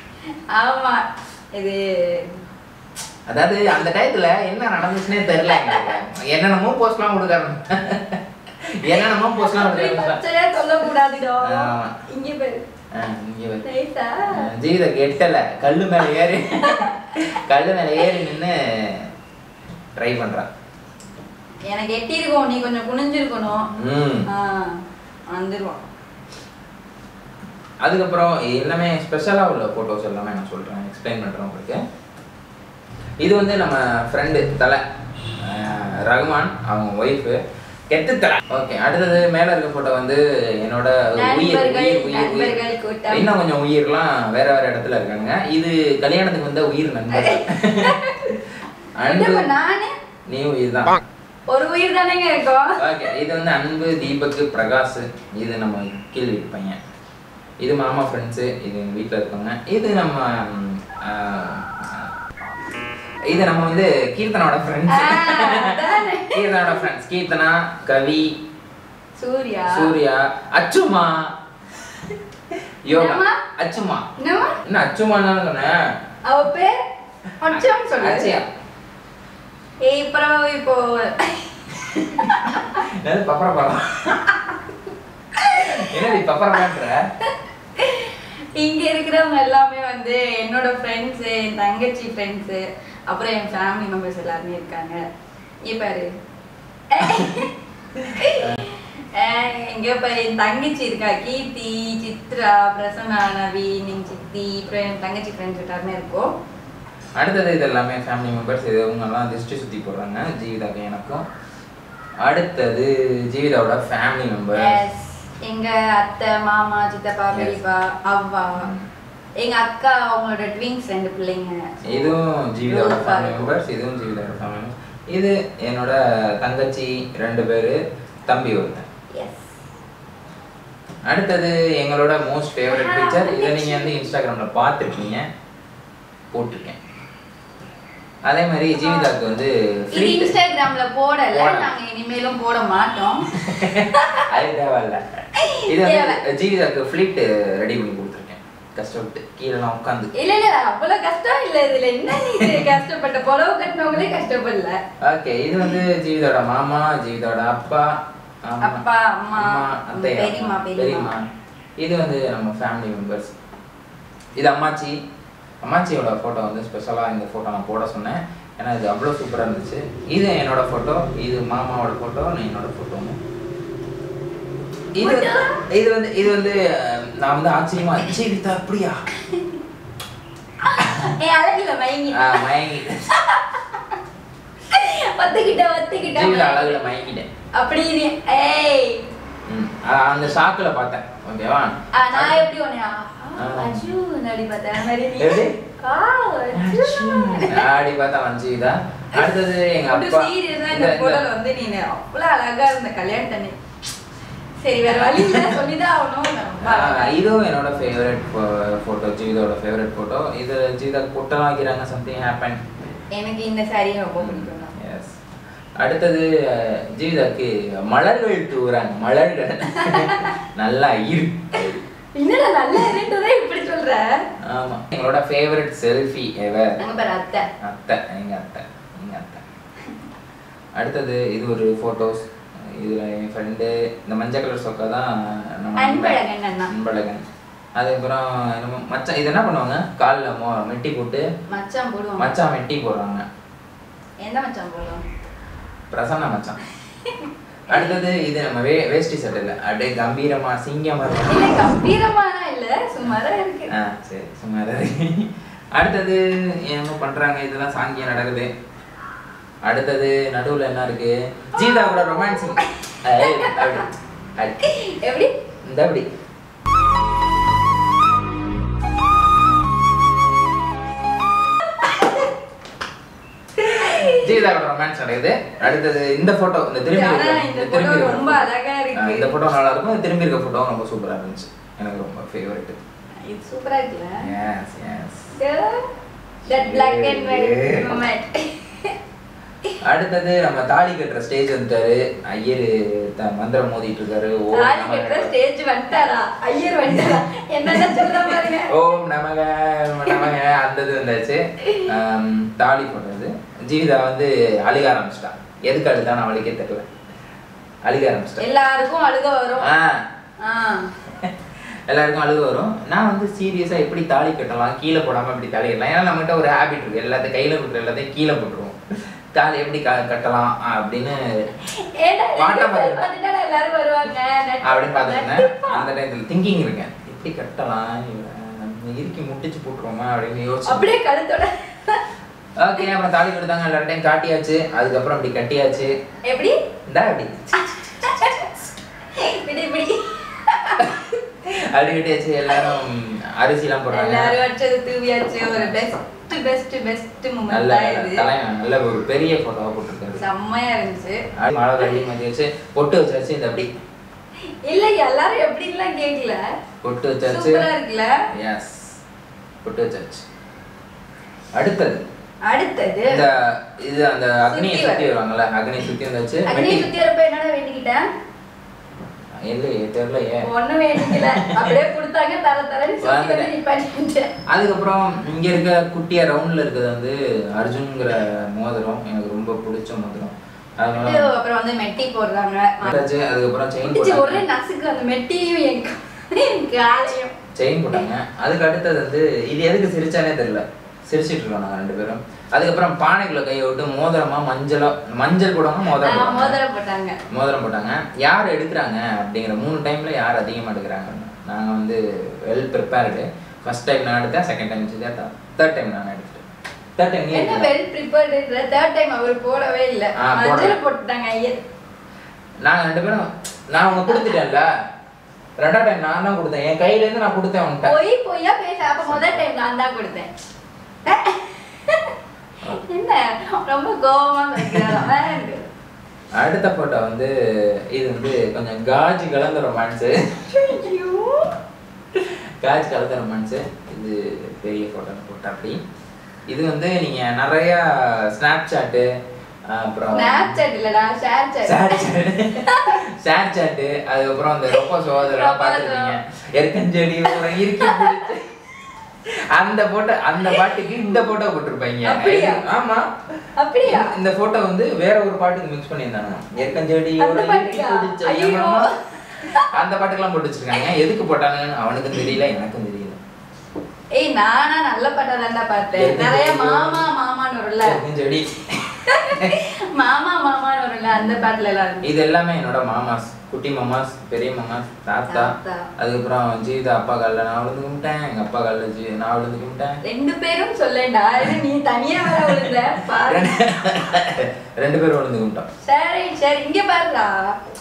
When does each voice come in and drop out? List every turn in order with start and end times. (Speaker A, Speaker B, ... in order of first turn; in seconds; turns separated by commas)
Speaker A: 0.5-2.3, Speaker B: 3.3-10.2, Speaker A: 5.4-6.0, Speaker A: 9.4-12.6, Speaker B: 11.4-12.0, Speaker B: 12.9-13.7, Speaker A: 13.6-14.5, Speaker B: 14.3-19.1, Speaker A: 16.6-17.4, Speaker B: 20.0-20.5, Speaker A: 21.7-23.7, Speaker B: 23.7-24.3, Speaker A: 24.3-25.8, Speaker B: 27.8-31.8, Speaker B: 33.2-34.8, Speaker B: 35.4-42.6, Speaker A: 41.1-43.3, Speaker B: 43.1-48.4, Speaker A: 47.1-48.3, Speaker B: 49.0-49.5, Speaker A: 49.0-49.9, Speaker B: 50.3-51.0, Speaker A: 51.5-52.8, Speaker B: 52.8-56.8, Speaker B: 57.6-62.1, Speaker B: 63.3-68.4, Speaker A: 64.9-66.7, Speaker A: 69.2-69.9, Speaker B: 69.7-71.3, Speaker B: 72.8-74.1, Speaker A: 72.9-73.4, Speaker A: 74.2-74.6, Speaker B: 74.6-75.8, Speaker A: 76.2-76.8, Speaker A: 77.4-78.3, Speaker B: 77.5-78.5, Speaker A: 79.8-82.8, Speaker B: 82.1-84.4, Speaker A: 85.4-86.0, Speaker B: 85.5-87.1, Speaker A: 87.8-95.0, Speaker A: 95.6-96.1, Speaker A: 96.9-97.5, Speaker B: 98.1-98.6, Speaker A: 98.2-106.3, Speaker B: 107.2-111.2, Speaker B: 112.2-114.8, Speaker A: 114.5-118.7, Speaker B: 118.6-118.9, Speaker A: 119.4-122.2, Speaker B: 121.9-128.8, Speaker A: 122.7-123.5, Speaker A: 129.1-129.5, Speaker B: 131.0-135.3, Speaker A: 132.6-134.1, Speaker B: 136.3-136.8, Speaker B: 138.2-140.4, Speaker A: 138.8-139.1, Speaker A: 139.9-143.3, Speaker B: 141.3-141.7, Speaker B: 143.3-145.0, Speaker A: 143.9-144.3, Speaker A: 145.3-146.2, Speaker B: 145.7-150.1, Speaker A: 150.1-154.8, Speaker B: 152.2-152.7, Speaker B: 155.0-158.8, Speaker A: 158.6-161.1, Speaker B: 159.3-161.3, Speaker B: 161.8-163.3, Speaker B: 164.3-165.0, Speaker B: 165.6-173.2, Speaker B: 174.9-179.0, Speaker A: 175.0-175.6, Speaker A: 180.6-184.0, Speaker B: 182.1-183.1, Speaker A: 184.7-186.8, Speaker B: 186.0-187.3, Speaker A: 187.5-189.0, Speaker B: 189.4-192.4, Speaker A: 191.9-197.7, Speaker B: 193.4-193.9, Speaker B: 195.2-195.6, Speaker B: 196.5-201.2, Speaker A: 199.8-203.6, Speaker A: 204.6-207.1, Speaker B: 204.9-205.6, Speaker B: 206.6-212.7, Speaker A: 213.1-214.7, Speaker B: 214.2-215.1, Speaker B: 215.8-221.8, Speaker A: 219.8-220.3, Speaker A: 222.1-224.2, Speaker B: 224.4-226.8, Speaker A: 226.8-227.5, Speaker B: 227.6-229.4, Speaker B: 230.8-241.3, Speaker A: 235.8-236.7, Speaker A: 241.5-242.3, Speaker B: 242.2-243.2, Speaker A: 244.2-245.0, Speaker B: 245.9-246.6, Speaker A: 247.0-248.0, Speaker B: 247.7-251.6, Speaker A: 251.3-253.7, Speaker B: 253.7-258.5, Speaker B: 259.6-264.6, Speaker A: 261.6-262.7, Speaker A: 263.2-263.8, Speaker A: 264.6-265.3, Speaker B: 265.6-266.1, Speaker A: 271.8-272.3, Speaker A: 273.6-274.5, Speaker B: 273.8-282.8, Speaker A: 276.9-279.3, Speaker A: 283.2-284.2, Speaker B: 284.2-285.3, Speaker A: 285.4-285.9, Speaker B: 286.5-288.0, Speaker A: 286.5-288.9, Speaker B: 289.8-295.3, Speaker A: 294.5-298.7, Speaker B: 296.8-306.9, Speaker B: 307.8-308.4, Speaker A: 308.4-309.7, Speaker B: 309.6-310.1, Speaker A: 310.4-310.9, Speaker B: 311.9-321.5, Speaker A: 321.6-325.9, Speaker B: 322.4-323.0, Speaker B: 324.6-330.9, Speaker A: 330.6-332.0, Speaker B: 332.6-335.9, Speaker A: 336.2-336.6, Speaker B: 336.9-338.7, Speaker A: 337.6-338.5, Speaker A: 339.1-341.2, Speaker B: 341.4-344.4, Speaker A: 342.5-342.8, Speaker A: 343.9-348.2, Speaker B: 345.4-345.7, Speaker B: 347.5-350.2, Speaker A: 350.1-351.2, Speaker B: 351.4-353.7, Speaker A: 354.6-356.4, Speaker B: 356.8-357.7, Speaker A: 357.2-358.1, Speaker B: 358.4-358.9, Speaker B: 359.6-360.2, Speaker B: 361.5-362.0, Speaker A: 362.4-363.2, Speaker B: 363.1-366.9, Speaker A: 364.4-365.1, Speaker A: 366.5-368.1, Speaker B: 369.4-371.8, Speaker A: 370.4-374.3, Speaker B: 373.0-373.5, Speaker B: 374.5-381.3, Speaker A: 381.0-383.0, Speaker B: 382.8-384.4, Speaker A: 383.8-387.3, Speaker B: 387.5-396.6, Speaker A: 395.9-397.2, Speaker B: 397.3-406.4, Speaker B: 407.0-407.7, Speaker A: 407.3-411.6, Speaker B: 410.2-410.8, Speaker B: 412.6-414.7, Speaker B: 415.6-417.9, Speaker A: 417.8-420.3, Speaker B: 419.0-419.4, Speaker A: 421.0-422.1, Speaker A: 422.7-425.6, Speaker B: 424.6-425.1, Speaker B: 426.3-427.3, Speaker B: 427.9-430.4, Speaker A: 430.5-431.5, Speaker B: 432.1-435.8, Speaker B: 436.5-439.1, Speaker B: 439.7-440.6, Speaker A: 440.1-442.1, Speaker B: 441.6-448.5, Speaker A: 442.6-443.0, Speaker A: 444.7-446.1, Speaker A: 447.5-448.3, Speaker B: 449.3-453.1, Speaker A: 450.5-451.3, Speaker A: 452.0-452.6, Speaker A: 453.6-454.1, Speaker B: 453.8-458.9, Speaker A: 457.2-459.8, Speaker B: 459.6-463.2, Speaker A: 464.1-468.0, Speaker B: 465.9-467.1, Speaker B: 467.8-469.6, Speaker A: 469.1-472.1, Speaker B: 471.1-471.5, Speaker B: 472.0-480.0, Speaker A: 475.3-475.9, Speaker A: 480.0-483.5, Speaker B: 482.2-485.7, Speaker A: 485.8-487.5